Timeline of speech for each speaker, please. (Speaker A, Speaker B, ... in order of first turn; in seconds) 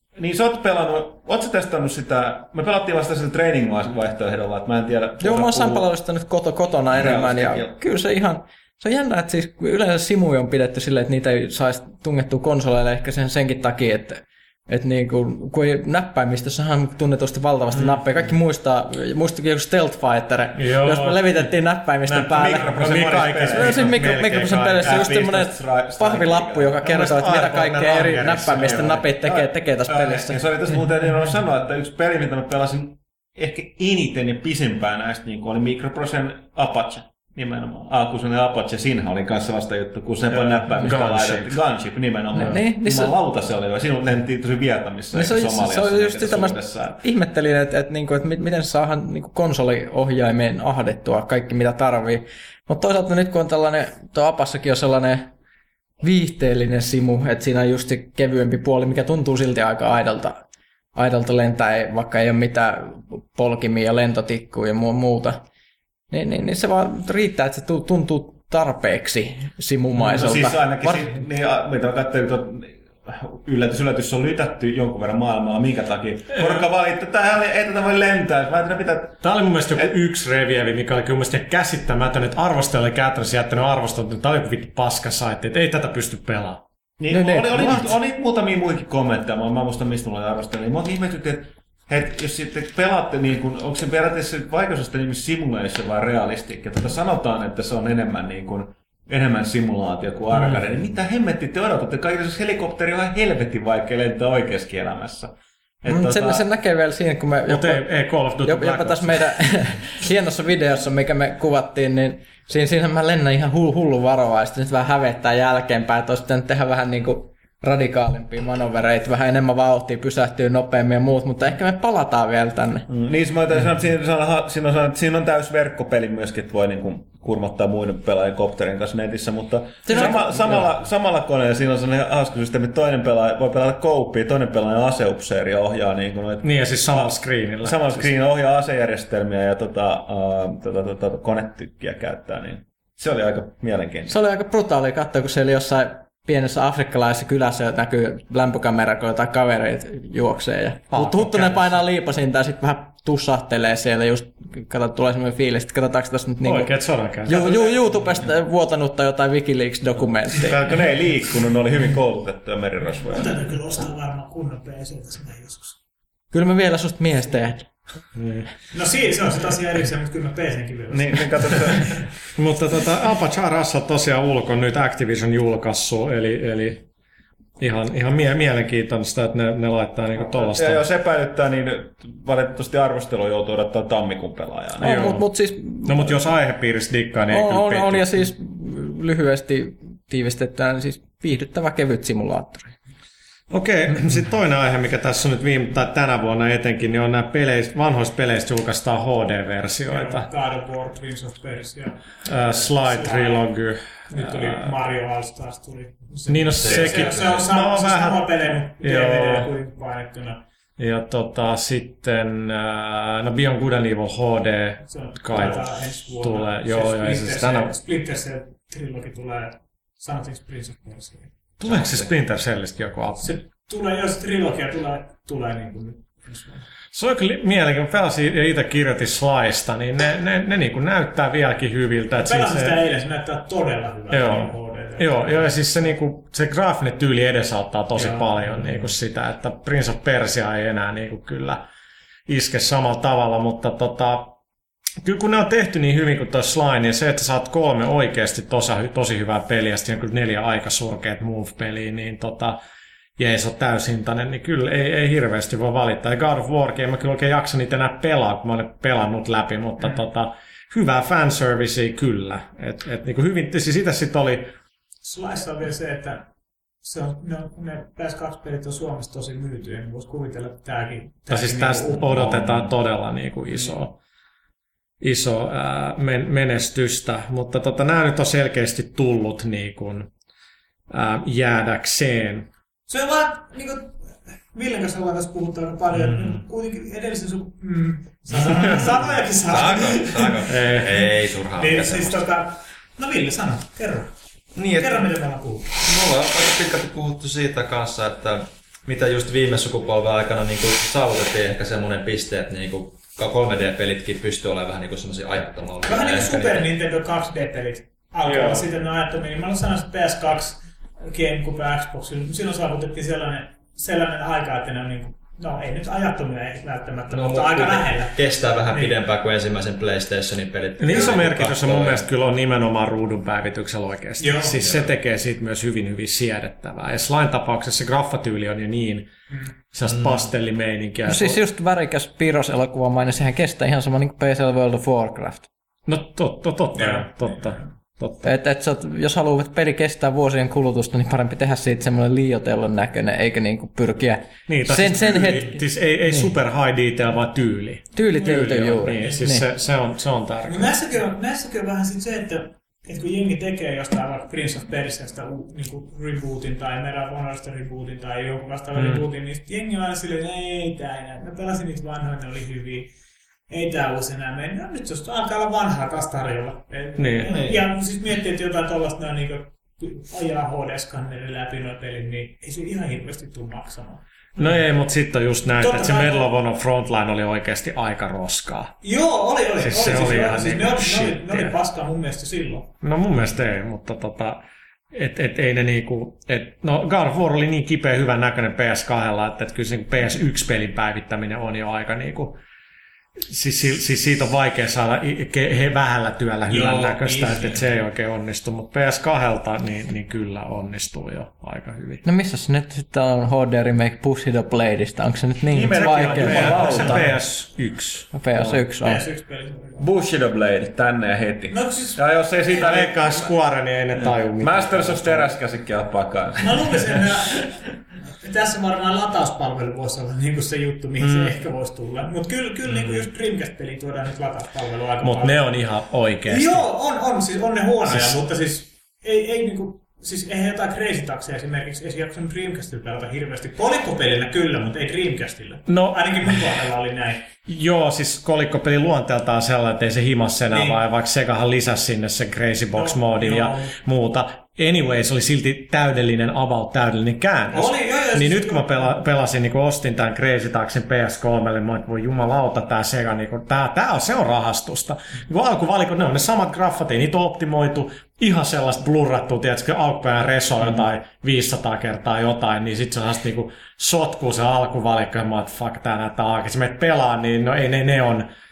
Speaker A: 0.1-5.9, 6.9-7.8, 22.1-24.2, 24.8-26.7, 29.2-47.0, 70.0-79.9, 87.0-106.4, 122.9-144.2, 160.3-163.5, 170.9-172.1, 180.1-185.2, 405.5-407.2, 409.8-413.3, 414.0-417.1
Speaker B: 5.2-23.0, 23.5-30.4, 42.4-43.1, 45.1-55.3, 56.0-65.4, 66.1-70.6, 87.1-87.9, 105.9-122.9, 129.8-130.7, 144.1-160.8, 166.3-167.7, 184.8-186.3, 187.3-192.7, 331.1-335.5, 338.2-345.6, 347.9-349.5, 402.0-407.0, 408.1-409.0
Speaker C: 20.6-21.5, 22.1-25.1, 26.8-29.1, 40.3-41.6, 76.3-76.6, 79.2-86.6, 107.5-109.4, 136.4-138.1, 150.9-151.8, 156.4-157.6, 168.1-168.5, 172.3-176.8, 177.6-180.8, 184.8-185.3, 185.8-188.3, 193.5-200.3, 202.2-204.7, 206.3-209.5, 210.8-217.7, 221.6-223.3, 226.9-232.8, 234.1-241.6, 242.3-244.3, 245.0-252.6, 253.2-264.5, 271.3-273.9, 275.0-280.1, 280.9-282.5, 290.4-290.9, 308.2-308.7, 320.8-329.1, 329.7-331.4, 335.9-338.3, 344.5-350.7, 358.7-359.0, 367.0-367.3, 374.4-378.8, 379.6-381.5, 382.8-392.4, 393.3-402.0, 405.7-408.6, 412.6-415.4, 421.0-421.3, 425.0-426.6, 427.9-428.2, 435.7-436.2, 437.4-468.3
Speaker D: 163.0-165.8, 168.7-171.9, 199.9-203.4, 204.1-210.4, 214.9-221.3, 223.2-226.6, 232.1-235.8, 237.9-238.5, 265.0-266.3, 266.8-272.4, 282.9-294.1, 294.7-295.8, 305.8-318.2, 318.7-318.9, 320.9-321.2, 324.2-324.6, 336.8-337.7, 348.9-349.3, 350.5-362.9, 363.5-374.5, 375.6-376.3, 378.8-382.7, 396.5-397.7, 408.8-409.9, 411.5-412.3, 416.4-425.5, 426.2-437.3, 440.5-440.8, 442.7-443.7, 447.5-449.0
Speaker E: 206.6-207.5, 221.6-222.1, 272.1-272.7, 285.9-286.4, 288.3-292.2, 294.5-295.1, 295.7-306.7, 317.1-322.0, 324.6-324.9, 329.9-330.3, 367.3-367.6